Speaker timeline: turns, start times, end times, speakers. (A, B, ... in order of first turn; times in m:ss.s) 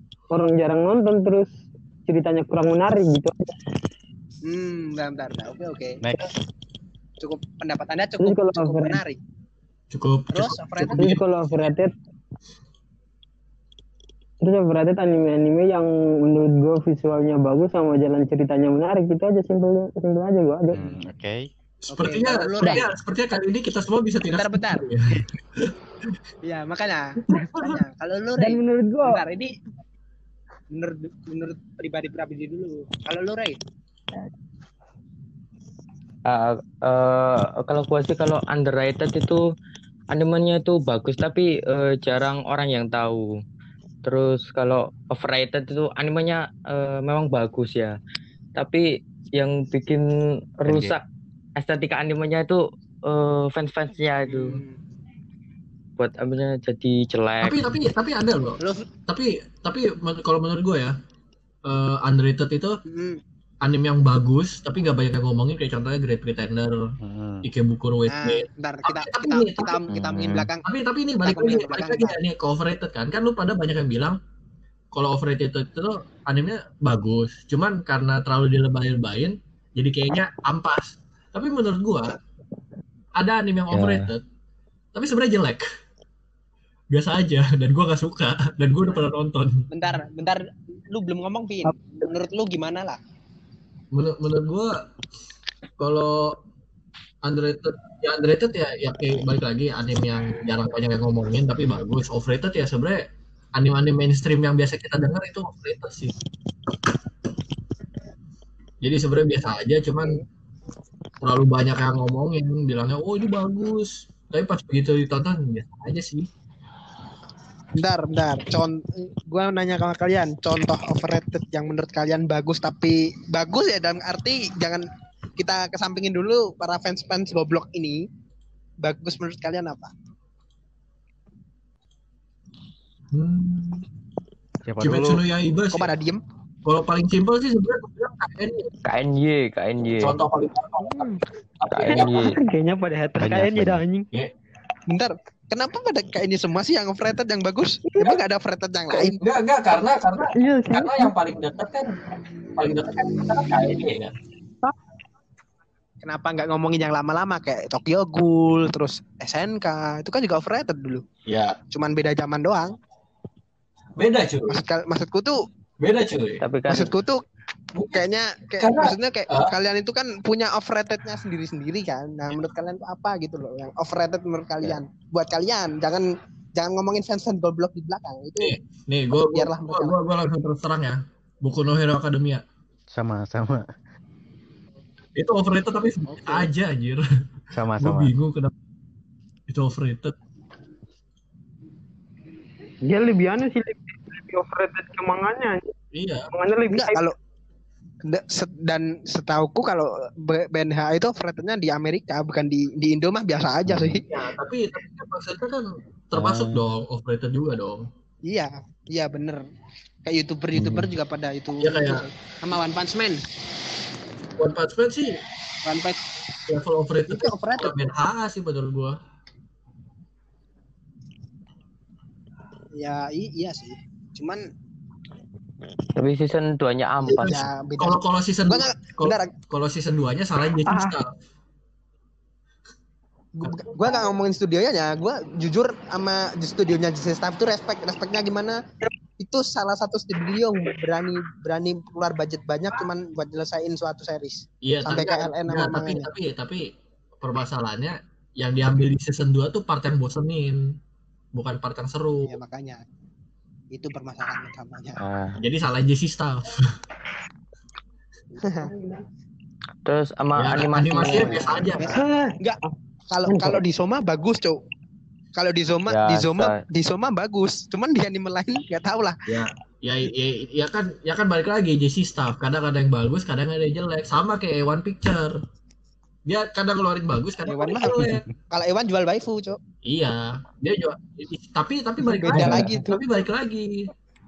0:00.3-0:01.5 A
0:02.1-0:03.6 A
0:04.4-0:06.0 B
0:06.0-0:06.3 C
0:07.2-0:09.2 B
0:08.2-0:09.0 A
0:09.9-0:11.2 D
0:10.3-0:11.2 B
0:10.9-0:12.0 A
0:14.4-0:20.9 A
0:20.7-0:21.5 C
0:21.9-0:25.8 D
0:21.9-0:22.9 B
0:24.3-0:24.9 B
0:26.4-0:29.5 B
0:27.3-0:27.8 D
0:28.4-0:29.2 A
0:30.7-0:33.6 B
0:36.3-0:39.4 E
0:40.1-0:43.3 E
0:44.0-0:48.0 E
0:48.6-0:50.1 E
0:50.6-0:51.0 E
0:50.7-0:51.0 C
0:51.6-0:54.6 E
0:54.2-0:54.8 B
0:56.0-0:57.7 E
0:57.4-1:00.9 D
0:58.6-0:58.9 B
1:01.6-1:02.8 D
1:02.9-1:03.2 B
1:03.6-1:06.9 D
1:07.0-1:07.5 C
1:07.4-1:09.8 D
1:08.1-1:10.7 B
1:09.9-1:10.5 C
1:10.6-1:14.2 D
1:11.2-1:12.2 B
1:14.9-1:22.2 D
1:23.2-1:24.2 D
1:23.7-1:24.1 C
1:24.9-1:25.6 D
1:26.9-1:29.7 D
1:29.7-1:33.0 B
1:33.9-1:34.8 D
1:35.8-1:36.4 D
1:37.2-1:46.1 D
1:48.8-1:50.2 D
1:51.2-1:56.3 D
1:57.8-2:04.9 B
2:05.4-2:08.1 B
2:08.8-2:09.9 B
2:13.1-2:13.8 D
2:14.6-2:15.2 C
2:14.8-2:15.9 D
2:15.7-2:16.2 B
2:16.7-2:18.7 D
2:18.8-2:20.2 E
2:20.0-2:22.3 D
2:20.9-2:21.2 A
2:21.7-2:22.4 E
2:21.9-2:24.1 A
2:23.2-2:23.8 C
2:24.9-2:29.2 B
2:27.9-2:28.2 A
2:28.9-2:32.0 D
2:30.3-2:31.1 A
2:32.6-2:34.1 D
2:36.0-2:41.0 B
2:41.3-2:41.6 D
2:41.7-2:42.8 B
2:44.0-2:44.6 D
2:44.5-2:45.4 B
2:45.8-2:46.4 D
2:46.4-2:46.9 E
2:46.7-2:47.2 B
2:47.8-2:48.0 D
2:47.9-2:58.5 B
2:48.6-2:49.5 D
2:58.4-3:02.4 D
2:59.1-3:00.0 B
3:02.9-3:03.6 C
3:05.2-3:07.0 D
3:06.2-3:06.5 B
3:07.5-3:08.1 C
3:07.8-3:08.5 D
3:09.5-3:10.2 D
3:12.8-3:15.7 A
3:15.9-3:16.3 D
3:16.3-3:17.0 A
3:16.7-3:17.2 B
3:18.0-3:24.1 B
3:23.7-3:24.0 C
3:24.1-3:27.9 D
3:26.1-3:26.6 C
3:28.3-3:29.4 B
3:30.0-3:33.2 B
3:30.5-3:30.9 C
3:31.6-3:32.0 D
3:34.4-3:35.2 D
3:35.6-3:36.0 B
3:36.5-3:39.0 D
3:37.1-3:37.8 B
3:42.7-3:44.5 B
3:46.0-3:47.5 E
3:47.1-3:49.3 B
3:47.2-3:51.1 D
3:50.7-3:51.0 A
3:53.4-3:58.6 B
3:53.4-3:53.8 D
3:59.2-4:06.1 B
4:04.6-4:06.7 D
4:07.2-4:10.7 D
4:11.3-4:12.4 D
4:12.3-4:12.8 B
4:13.7-4:15.0 B
4:15.1-4:15.3 C
4:15.4-4:16.7 D
4:18.4-4:19.0 A
4:18.4-4:18.7 B
4:19.9-4:21.5 E
4:20.4-4:22.0 D
4:21.1-4:22.7 A
4:21.1-4:24.6 B
4:23.3-4:23.6 A
4:25.4-4:29.2 B
4:25.9-4:26.6 E
4:29.3-4:35.4 D
4:36.3-4:38.2 D
4:37.5-4:39.6 B
4:39.8-4:43.9 D
4:42.2-4:43.0 A
4:42.2-4:42.9 B